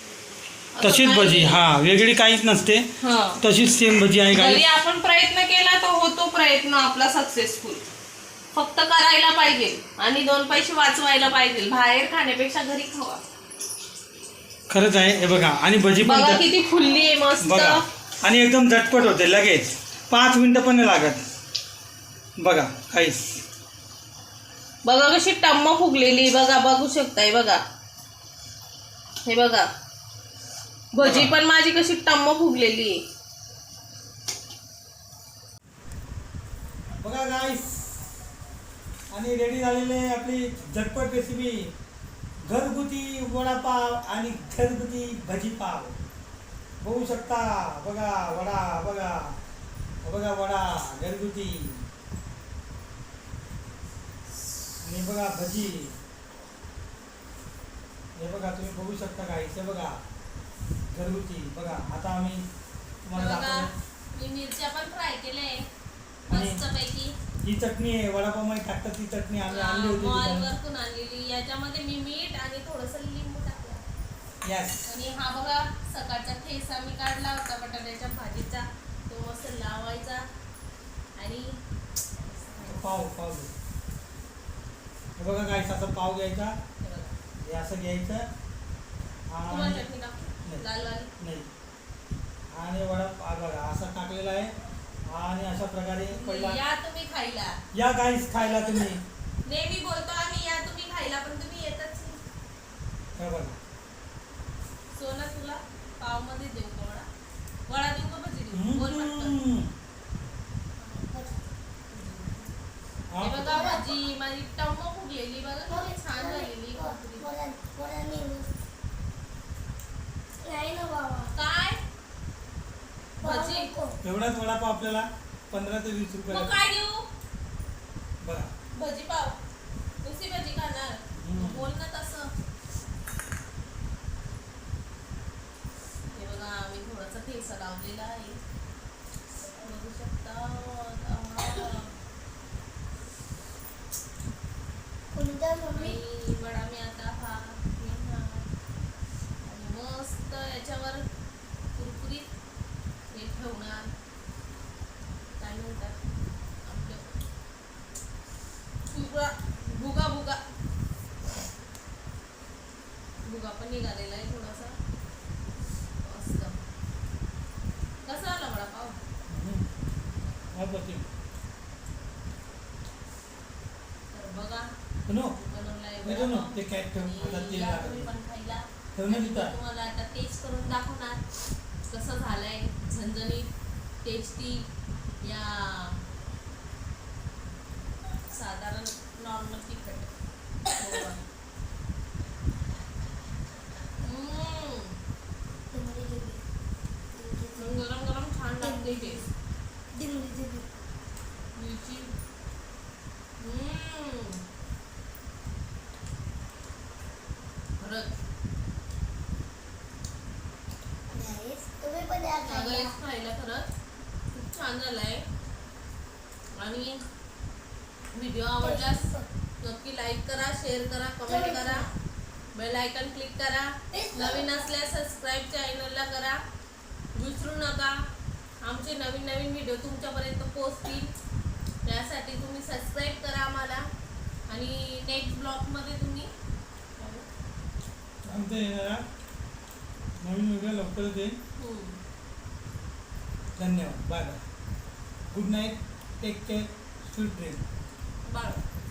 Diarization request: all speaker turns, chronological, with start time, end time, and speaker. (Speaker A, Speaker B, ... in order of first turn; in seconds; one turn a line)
Speaker A: 0.7-1.7
Speaker B: 0.8-4.7
Speaker A: 3.0-3.4
Speaker A: 4.3-7.8
Speaker A: 8.6-13.2
Speaker B: 14.7-16.4
Speaker A: 16.0-17.9
Speaker B: 17.4-21.3
Speaker B: 22.4-23.4
Speaker A: 24.9-27.6
Speaker A: 29.3-29.7
Speaker A: 30.9-33.0
Speaker B: 31.0-31.4
Speaker B: 37.0-38.0
Speaker B: 39.1-41.7
Speaker B: 42.5-46.0
Speaker B: 46.8-49.4
Speaker B: 50.0-51.9
Speaker B: 54.8-56.0
Speaker B: 58.2-60.0
Speaker B: 60.9-62.5
Speaker B: 63.0-63.7
Speaker A: 63.2-65.7
Speaker A: 66.3-67.2
Speaker B: 66.3-66.6
Speaker B: 67.4-70.5
Speaker A: 69.5-73.9
Speaker B: 74.4-74.9
Speaker A: 74.9-80.3
Speaker A: 81.2-81.6
Speaker A: 82.3-82.9
Speaker B: 82.6-83.5
Speaker B: 85.2-86.6
Speaker A: 86.8-87.2
Speaker B: 87.4-88.3
Speaker B: 89.3-89.9
Speaker A: 89.5-91.1
Speaker B: 91.2-91.5
Speaker B: 92.5-94.5
Speaker B: 95.0-96.6
Speaker A: 96.1-97.6
Speaker B: 97.7-99.0
Speaker A: 99.5-102.2
Speaker B: 103.2-103.6
Speaker A: 104.9-107.1
Speaker A: 107.7-109.4
Speaker B: 108.5-109.7
Speaker A: 110.8-111.1
Speaker C: 111.1-111.4
Speaker A: 111.9-112.5
Speaker B: 113.1-113.6
Speaker A: 113.2-117.3
Speaker C: 113.5-114.0
Speaker C: 115.7-118.5
Speaker C: 120.4-121.3
Speaker A: 121.3-121.8
Speaker C: 123.2-124.0
Speaker A: 123.2-123.7
Speaker B: 124.0-126.5
Speaker A: 126.3-127.1
Speaker B: 128.2-128.5
Speaker A: 128.8-129.4
Speaker A: 130.0-132.3
Speaker B: 131.2-131.7
Speaker A: 136.2-138.4
Speaker A: 139.6-141.9
Speaker C: 145.1-146.0
Speaker A: 145.8-148.5
Speaker A: 149.4-151.1
Speaker A: 151.8-152.3
Speaker A: 153.1-153.9
Speaker A: 155.4-156.0
Speaker A: 156.7-157.1
Speaker A: 158.9-160.4
Speaker A: 163.2-164.8
Speaker A: 166.0-166.6
Speaker A: 168.1-169.0
Speaker B: 169.3-169.7
Speaker B: 170.5-171.1
Speaker A: 174.1-174.7
Speaker B: 175.1-175.4
Speaker A: 175.3-181.2
Speaker B: 176.0-178.1
Speaker B: 178.9-179.6
Speaker A: 181.9-183.5
Speaker A: 184.0-184.7
Speaker A: 185.2-186.0
Speaker A: 188.3-190.1
Speaker A: 190.8-191.2
Speaker A: 194.0-195.0
Speaker C: 195.7-196.4
Speaker C: 197.1-197.8
Speaker A: 197.6-199.2
Speaker C: 198.6-199.3
Speaker C: 199.9-200.7
Speaker A: 201.6-202.1
Speaker A: 203.4-204.4
Speaker A: 207.8-208.1
Speaker C: 211.1-212.9
Speaker A: 212.4-213.7
Speaker A: 214.3-215.3
Speaker A: 216.6-217.0
Speaker A: 218.1-219.1
Speaker C: 218.6-219.3
Speaker A: 219.6-221.9
Speaker C: 221.3-221.9
Speaker A: 222.6-226.4
Speaker C: 223.9-224.7
Speaker A: 227.2-228.1
Speaker A: 228.6-231.1
Speaker A: 231.8-233.9
Speaker A: 234.5-236.3
Speaker A: 237.0-237.3
Speaker B: 238.2-239.1
Speaker B: 240.2-241.4
Speaker A: 241.6-242.0
Speaker B: 243.6-244.4
Speaker B: 245.3-247.6
Speaker A: 248.3-248.6